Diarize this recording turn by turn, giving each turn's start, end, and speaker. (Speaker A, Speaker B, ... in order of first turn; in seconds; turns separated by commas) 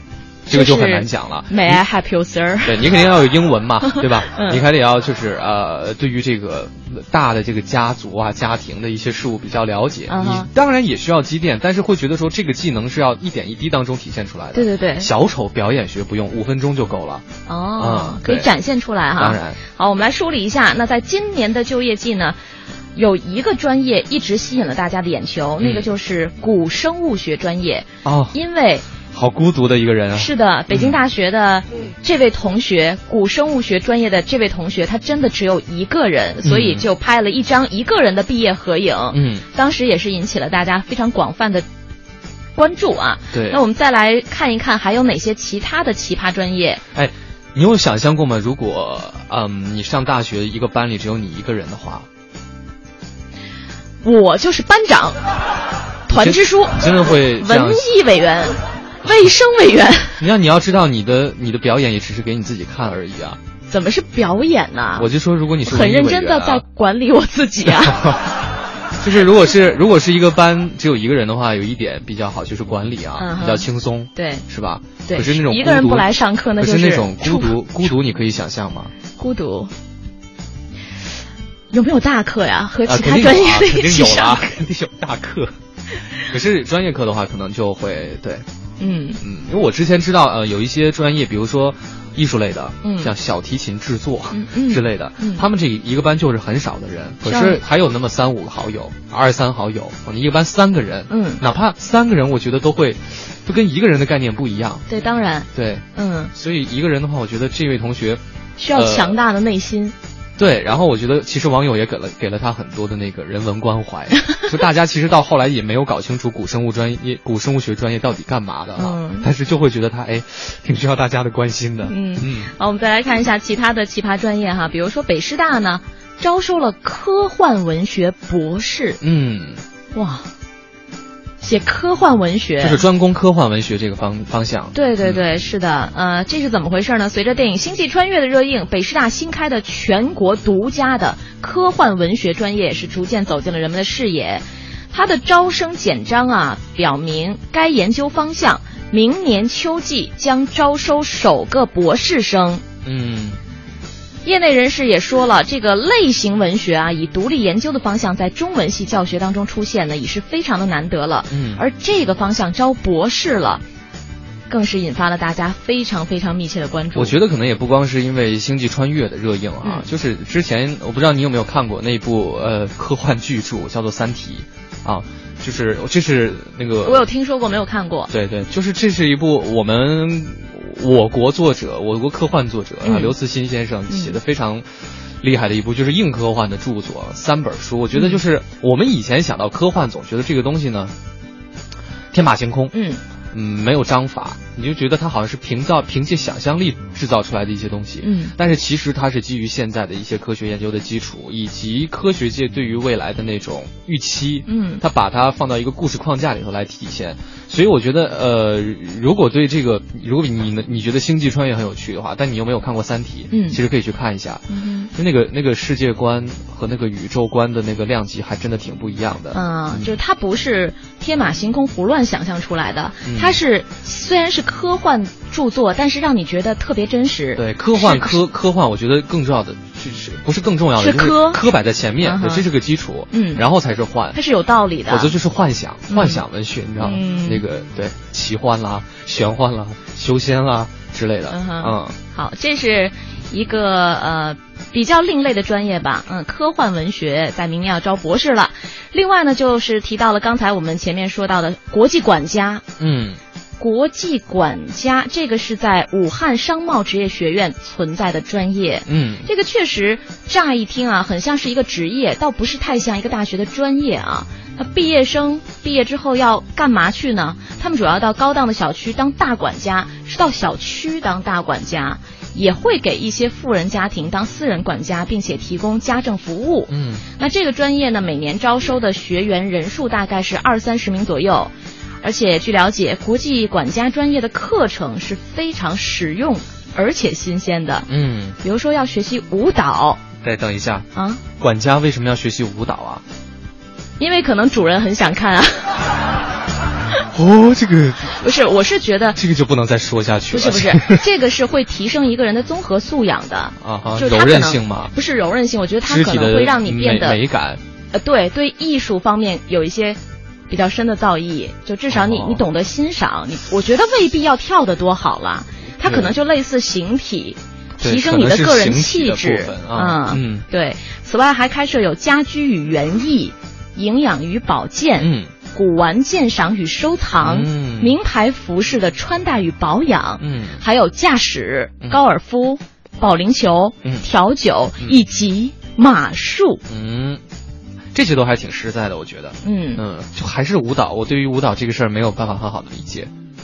Speaker A: 0.5-1.8, Speaker B: 0.5-3.1, Speaker A: 2.6-17.2, Speaker B: 3.8-4.6, Speaker B: 10.1-10.5, Speaker B: 14.5-15.1, Speaker B: 17.5-22.4, Speaker A: 17.8-18.5, Speaker A: 19.1-19.6, Speaker B: 22.9-28.9, Speaker A: 25.6-25.9, Speaker A: 28.0-28.4, Speaker A: 29.1-31.0, Speaker B: 30.1-41.6, Speaker A: 36.4-36.9, Speaker A: 39.1-39.4, Speaker B: 42.5-46.8, Speaker A: 43.3-43.6, Speaker A: 46.9-52.0, Speaker B: 54.0-55.2, Speaker B: 56.1-60.2, Speaker A: 56.1-57.9, Speaker A: 60.2-63.4, Speaker B: 63.7-65.1, Speaker A: 65.0-66.6, Speaker B: 65.6-68.2, Speaker A: 67.8-68.2, Speaker A: 69.0-78.9, Speaker B: 73.2-74.4, Speaker B: 75.0-77.9, Speaker B: 79.2-79.7, Speaker B: 81.7-84.5, Speaker A: 82.8-85.5, Speaker A: 86.2-88.4, Speaker B: 88.8-89.2, Speaker A: 89.2-104.9, Speaker B: 92.8-93.1, Speaker B: 94.3-95.4, Speaker B: 97.2-97.6, Speaker B: 101.1-101.4, Speaker B: 104.9-106.3, Speaker A: 105.5-109.2, Speaker B: 108.6-109.9, Speaker A: 110.4-122.5, Speaker B: 118.7-119.3, Speaker B: 121.8-129.0, Speaker A: 129.0-129.6, Speaker B: 129.9-130.3, Speaker B: 131.4-132.8, Speaker A: 132.6-135.2, Speaker B: 134.7-152.6, Speaker A: 152.8-153.4, Speaker B: 154.2-163.6, Speaker A: 161.3-161.6, Speaker B: 164.5-167.2, Speaker A: 166.9-177.1, Speaker B: 176.8-178.1, Speaker A: 178.1-184.7, Speaker B: 182.8-183.1, Speaker B: 183.9-184.2, Speaker A: 185.2-190.9, Speaker B: 187.9-188.2, Speaker A: 192.1-192.7, Speaker B: 192.7-193.0, Speaker A: 193.3-219.9, Speaker B: 198.0-198.3, Speaker B: 204.4-204.8, Speaker B: 213.3-213.6, Speaker B: 214.5-214.9, Speaker B: 219.3-228.2, Speaker A: 223.1-223.4, Speaker A: 227.3-234.2, Speaker B: 230.8-231.4, Speaker B: 232.0-232.4, Speaker B: 233.1-233.4, Speaker B: 234.1-235.2, Speaker A: 234.9-242.0, Speaker B: 235.9-236.2, Speaker B: 236.8-237.4, Speaker B: 241.3-252.6, Speaker A: 252.8-253.2, Speaker B: 253.6-287.9, Speaker A: 258.9-259.3, Speaker A: 276.7-277.0, Speaker A: 287.9-288.4, Speaker B: 288.4-290.0, Speaker A: 290.2-290.9, Speaker B: 290.9-291.2, Speaker A: 291.4-293.0, Speaker B: 294.0-295.8, Speaker A: 297.1-298.2, Speaker B: 298.2-299.2, Speaker A: 299.1-301.0, Speaker B: 300.3-307.2, Speaker A: 303.6-304.9, Speaker A: 305.8-307.6, Speaker B: 307.9-336.6, Speaker A: 311.9-312.4, Speaker A: 315.8-316.1, Speaker A: 317.8-320.4, Speaker A: 325.0-325.3, Speaker A: 327.2-328.0, Speaker A: 330.2-330.6, Speaker A: 336.7-337.2, Speaker A: 337.9-343.1, Speaker B: 339.4-339.8